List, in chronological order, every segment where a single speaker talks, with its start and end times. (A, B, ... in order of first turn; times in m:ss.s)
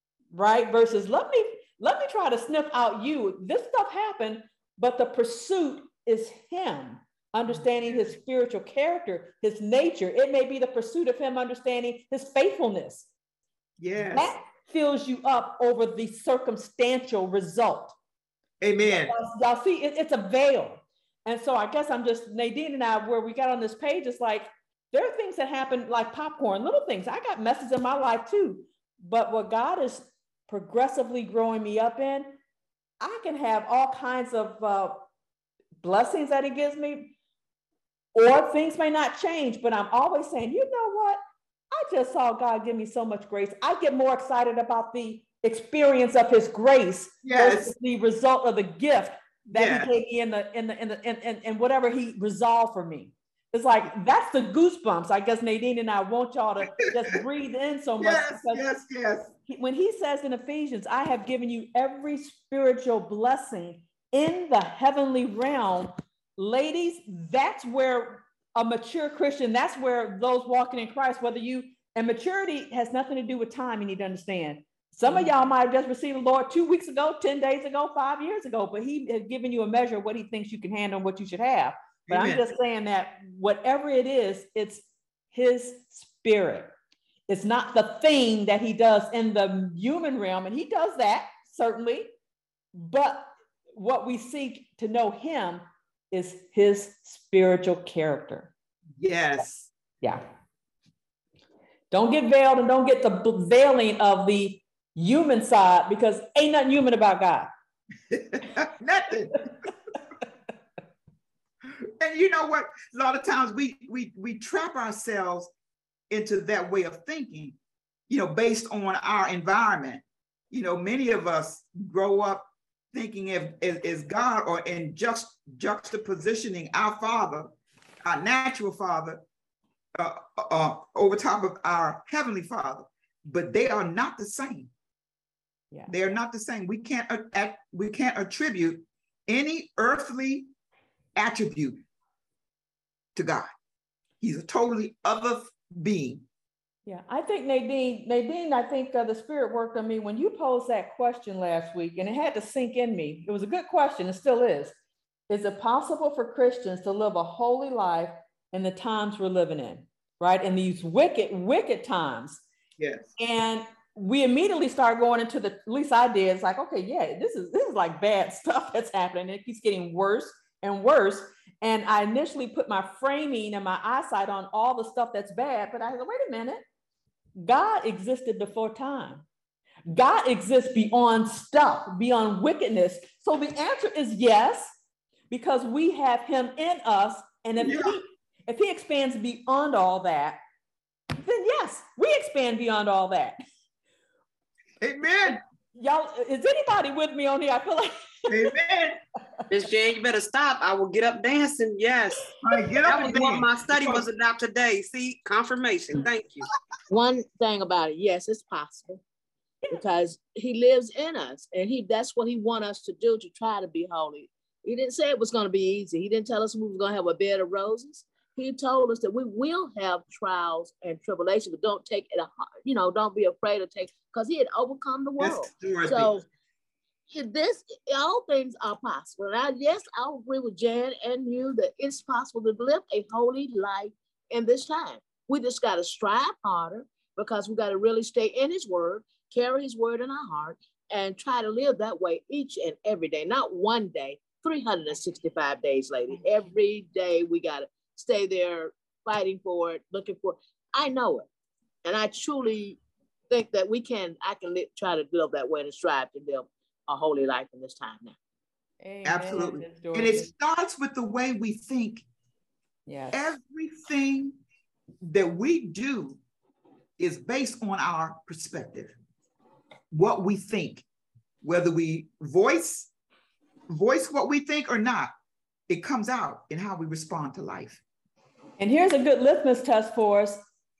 0:00.3-0:13.1 A
0:07.5-0:08.1 B
0:13.8-0:14.3 B
0:14.0-0:17.9 A
0:18.6-0:19.1 B
0:18.8-0:32.4 A
0:33.0-0:35.0 A
0:35.8-0:37.1 A
0:38.1-0:41.2 A
0:41.7-0:58.6 A
0:47.2-0:47.7 B
0:49.5-0:49.9 B
0:58.0-0:59.3 B
0:59.5-1:26.7 A
1:22.1-1:22.5 B
1:27.3-1:32.1 A
1:32.8-1:38.5 A
1:39.0-1:39.7 B
1:41.9-1:47.5 A
1:48.1-1:49.7 B
1:52.0-1:55.5 B
1:56.1-1:57.6 B
1:58.1-2:07.5 B
2:08.0-2:09.2 B
2:10.0-2:14.7 B
2:15.9-2:20.5 B
2:21.2-2:21.8 B
2:23.1-2:23.5 B
2:24.2-2:26.2 B
2:26.8-2:34.7 A
2:35.3-2:42.4 A
2:42.8-2:43.1 B
2:43.2-2:56.6 A
2:57.4-2:59.2 A
2:59.9-3:04.7 A
3:05.3-3:10.4 A
3:07.6-3:08.0 B
3:11.2-3:13.4 A
3:14.8-3:15.4 B
3:15.7-3:18.5 A
3:18.3-3:19.0 B
3:19.5-3:26.5 C
3:22.4-3:24.0 B
3:26.9-3:29.0 D
3:29.7-3:46.2 D
3:45.2-3:46.2 B
3:47.1-4:11.3 D
4:11.8-4:18.2 D
4:18.8-4:20.3 A
4:19.0-4:22.0 B
4:22.8-4:23.2 A
4:23.1-4:24.4 B
4:25.0-4:26.2 B
4:27.0-4:28.9 B
4:29.9-4:30.8 B
4:31.4-4:32.9 B
4:33.7-4:35.1 B
4:35.7-4:37.8 B
4:38.6-4:40.4 A